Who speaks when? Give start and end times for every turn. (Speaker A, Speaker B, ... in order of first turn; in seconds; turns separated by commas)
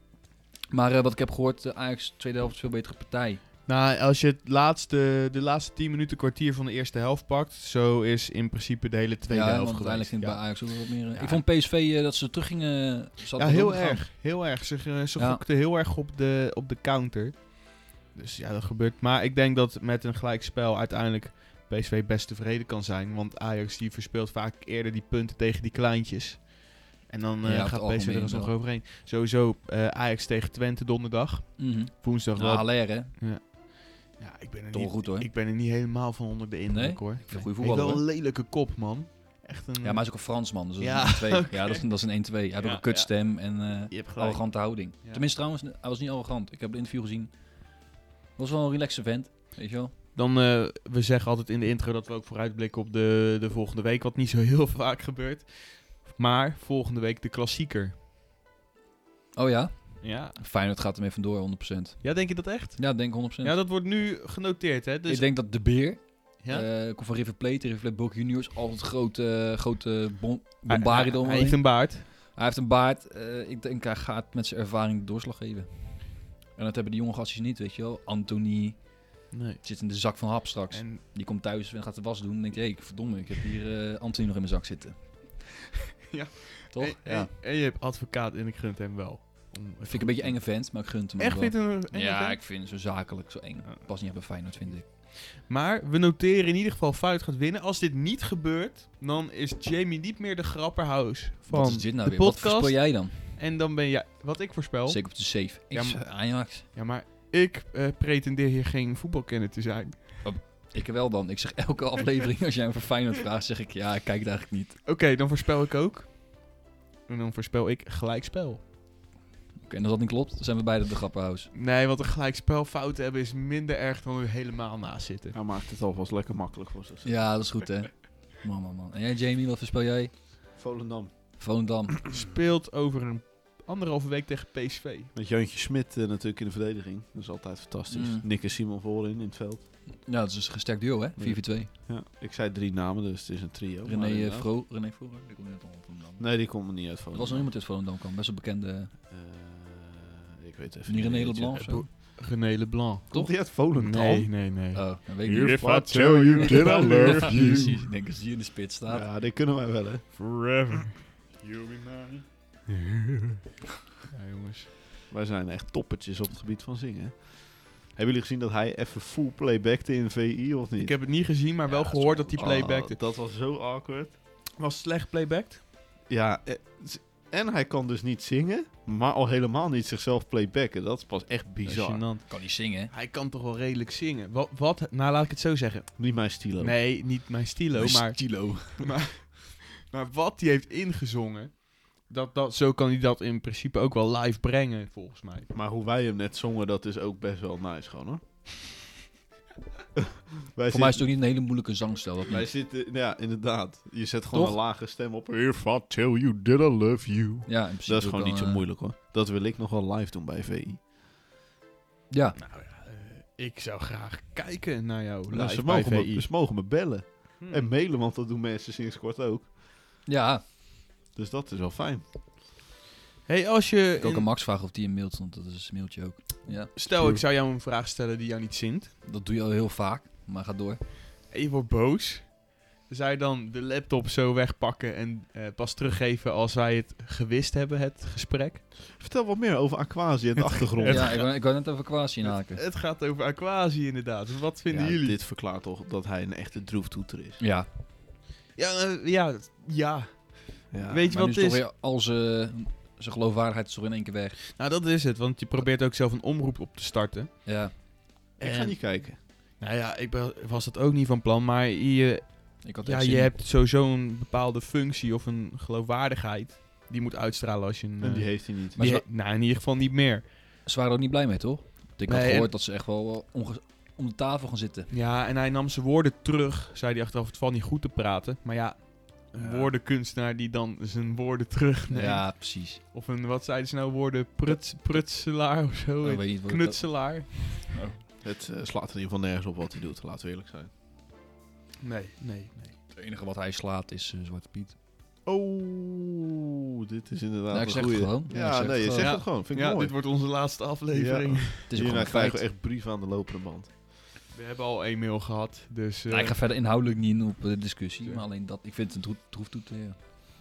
Speaker A: 0.7-3.4, Speaker B: 3.7-11.4, Speaker A: 9.3-14.1, Speaker B: 13.4-41.9, Speaker A: 15.2-15.4, Speaker A: 27.4-28.6, Speaker A: 31.6-33.2, Speaker A: 34.7-35.3, Speaker A: 36.7-38.0, Speaker A: 39.8-47.8, Speaker B: 42.6-45.2, Speaker A: 48.4-49.9, Speaker B: 50.1-57.9, Speaker A: 59.3-63.7, Speaker B: 60.0-60.4, Speaker B: 62.0-65.5, Speaker A: 65.1-85.2, Speaker B: 66.4-66.7, Speaker B: 70.7-72.0, Speaker B: 79.3-79.6, Speaker B: 80.7-81.0, Speaker B: 86.1-92.4, Speaker A: 86.7-87.3, Speaker A: 89.8-94.9, Speaker B: 94.7-110.2, Speaker A: 101.5-103.4, Speaker A: 104.9-106.7, Speaker A: 110.2-114.8, Speaker B: 114.8-118.6, Speaker A: 119.6-121.5, Speaker B: 121.5-125.4, Speaker C: 125.3-127.3, Speaker A: 127.0-130.1, Speaker C: 130.6-131.4, Speaker A: 131.4-132.1, Speaker B: 132.1-135.1, Speaker C: 135.2-139.7, Speaker A: 137.9-138.3, Speaker A: 139.9-141.7, Speaker C: 141.2-144.5, Speaker A: 143.9-148.9, Speaker C: 146.2-147.5, Speaker C: 149.1-151.7, Speaker A: 150.9-151.9, Speaker B: 151.6-157.4, Speaker C: 153.1-154.3, Speaker A: 154.7-155.7, Speaker C: 155.6-157.7, Speaker A: 156.4-159.1, Speaker C: 158.9-160.2, Speaker B: 160.1-162.3, Speaker B: 164.1-164.7, Speaker C: 165.1-171.0, Speaker B: 170.8-173.0, Speaker A: 171.7-172.7, Speaker C: 172.3-174.2, Speaker B: 174.6-175.6, Speaker C: 176.1-182.1, Speaker B: 181.6-195.5, Speaker A: 182.3-182.9, Speaker C: 186.0-186.8, Speaker A: 187.8-188.9, Speaker C: 195.5-198.2, Speaker C: 200.0-201.1, Speaker A: 200.7-202.5, Speaker C: 202.3-210.8, Speaker A: 204.3-204.6, Speaker A: 207.5-208.7, Speaker A: 212.1-212.4, Speaker B: 212.4-216.3, Speaker C: 215.3-219.5, Speaker B: 217.4-217.7, Speaker A: 220.1-220.4, Speaker C: 221.2-222.1, Speaker B: 223.3-224.3, Speaker A: 224.0-226.8, Speaker B: 226.7-228.9, Speaker C: 226.9-227.2, Speaker A: 229.1-230.8, Speaker B: 231.3-238.6, Speaker C: 239.0-241.2, Speaker B: 240.4-241.4, Speaker A: 240.8-242.6, Speaker B: 242.2-245.2, Speaker C: 244.7-247.4, Speaker A: 247.4-247.7, Speaker B: 248.6-251.6, Speaker C: 250.7-251.0, Speaker A: 251.1-254.6, Speaker B: 254.5-257.7, Speaker A: 257.4-257.8, Speaker C: 258.4-259.2, Speaker B: 258.4-270.3, Speaker A: 262.6-263.3, Speaker C: 268.0-268.8, Speaker A: 268.8-269.1, Speaker A: 270.6-274.9, Speaker B: 272.1-272.5, Speaker B: 274.9-287.7, Speaker C: 279.4-279.7, Speaker A: 281.9-282.8, Speaker A: 286.0-288.0, Speaker C: 288.2-290.7, Speaker B: 291.8-292.8, Speaker A: 292.9-294.8, Speaker C: 295.2-300.0, Speaker A: 297.5-299.2, Speaker B: 298.9-301.7, Speaker C: 300.9-303.7, Speaker A: 301.7-302.4, Speaker B: 304.3-306.4, Speaker A: 306.1-310.0